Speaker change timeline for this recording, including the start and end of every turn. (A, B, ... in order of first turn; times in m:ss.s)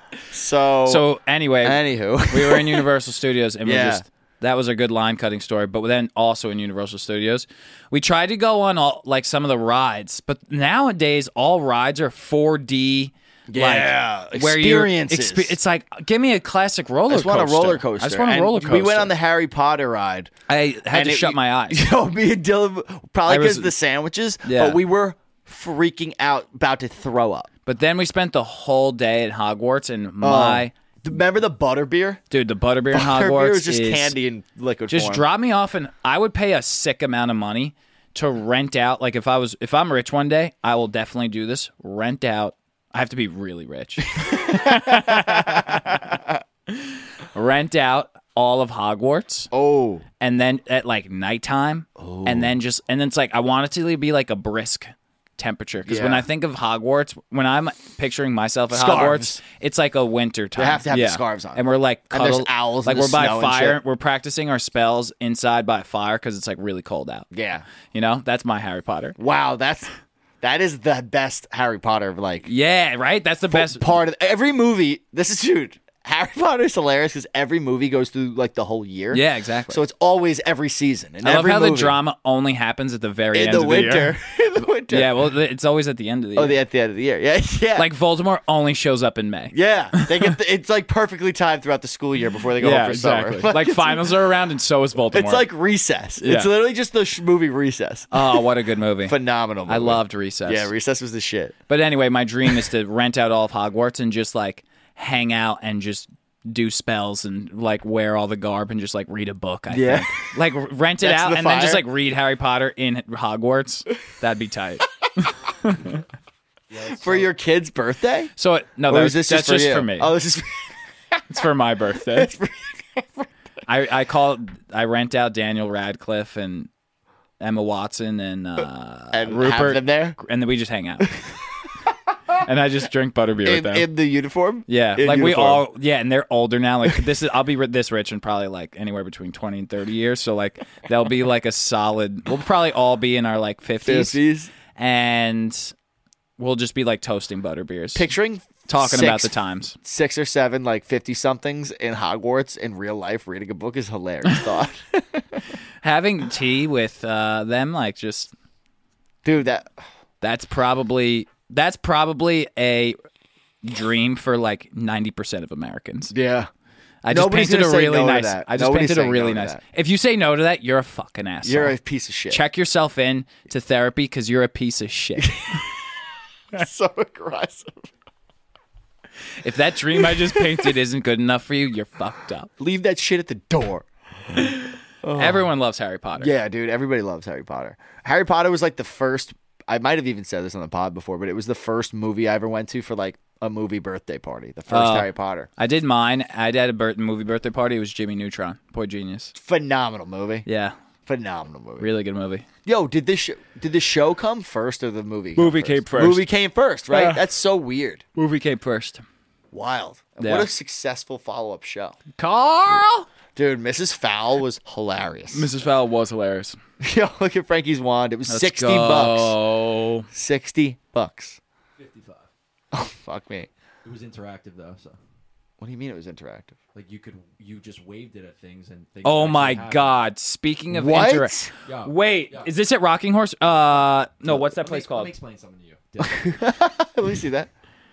0:00.3-0:01.1 A
0:00.9-0:19.1 B
0:01.6-0:02.9 A
0:03.6-0:04.0 A
0:13.5-0:15.6 A
0:17.1-0:20.3 A
0:20.5-0:21.8 B
0:20.9-0:27.5 A
0:23.3-0:23.7 B
0:24.4-0:24.8 B
0:27.7-0:30.7 B
0:30.2-0:32.2 A
0:32.3-0:34.2 B
0:32.9-0:35.2 A
0:34.9-0:46.2 B
0:44.2-0:46.2 A
0:46.7-0:49.5 B
0:49.5-0:50.0 A
0:50.2-1:07.3 B
0:52.0-0:52.6 A
0:55.8-0:56.3 A
0:58.7-0:59.4 A
1:00.6-1:03.8 A
1:07.3-1:07.7 A
1:07.9-1:09.2 B
1:09.2-1:09.9 A
1:10.4-1:12.5 A
1:12.5-1:13.9 B
1:13.5-1:22.0 A
1:19.1-1:19.8 B
1:21.2-1:24.2 B
1:23.3-1:25.1 A
1:24.9-1:26.6 B
1:26.4-1:27.9 A
1:27.8-1:30.3 B
1:29.5-1:34.2 A
1:32.6-1:35.5 B
1:35.1-1:38.4 A
1:36.2-1:36.5 B
1:38.1-1:39.2 B
1:39.0-1:41.6 A
1:39.7-1:40.7 B
1:41.7-1:56.0 B
1:49.7-1:50.2 A
1:51.0-1:51.9 A
1:56.7-1:57.3 C
1:56.9-1:58.3 A
1:58.4-2:00.1 B
1:58.9-2:01.4 A
2:01.3-2:02.3 B
2:02.1-2:03.3 A
2:03.7-2:06.7 B
2:07.4-2:11.1 B
2:09.1-2:10.2 A
2:12.4-2:13.9 B
2:13.4-2:15.6 A
2:14.7-2:24.2 B
2:23.8-2:24.5 A
2:24.8-2:25.7 B
2:26.4-2:28.1 B
2:28.0-2:35.5 A
2:28.7-2:29.8 B
2:35.8-2:38.3 B
2:39.2-2:39.7 A
2:40.2-2:43.0 B
2:43.6-2:46.1 B
2:46.1-2:46.5 A
2:47.0-2:51.8 B
2:47.1-2:49.6 A
2:51.4-2:52.4 A
2:52.3-2:55.6 B
2:55.2-2:55.6 A
2:56.5-2:57.9 A
2:59.4-3:02.5 B
3:00.2-3:00.6 A
3:02.6-3:05.4 A
3:05.1-3:06.3 B
3:06.2-3:15.5 A
3:14.7-3:19.3 B
3:19.3-3:20.4 A
3:20.5-3:20.8 B
3:21.1-3:21.9 A
3:21.8-3:22.5 B
3:22.6-3:28.0 A
3:25.4-3:26.3 B
3:26.9-3:27.2 B
3:28.2-3:29.0 B
3:29.5-3:32.0 A
3:30.2-3:30.5 B
3:32.2-3:33.1 B
3:33.4-3:35.5 A
3:35.3-3:36.6 B
3:36.8-3:39.4 A
3:38.3-3:40.1 B
3:40.1-3:41.4 A
3:41.8-3:42.3 C
3:42.7-3:43.5 A
3:43.8-3:45.0 C
3:45.6-3:46.6 A
3:46.8-3:50.0 C
3:49.0-3:55.1 B
3:50.7-3:51.5 A
3:51.6-3:52.5 C
3:54.3-3:56.5 C
3:56.0-3:57.5 A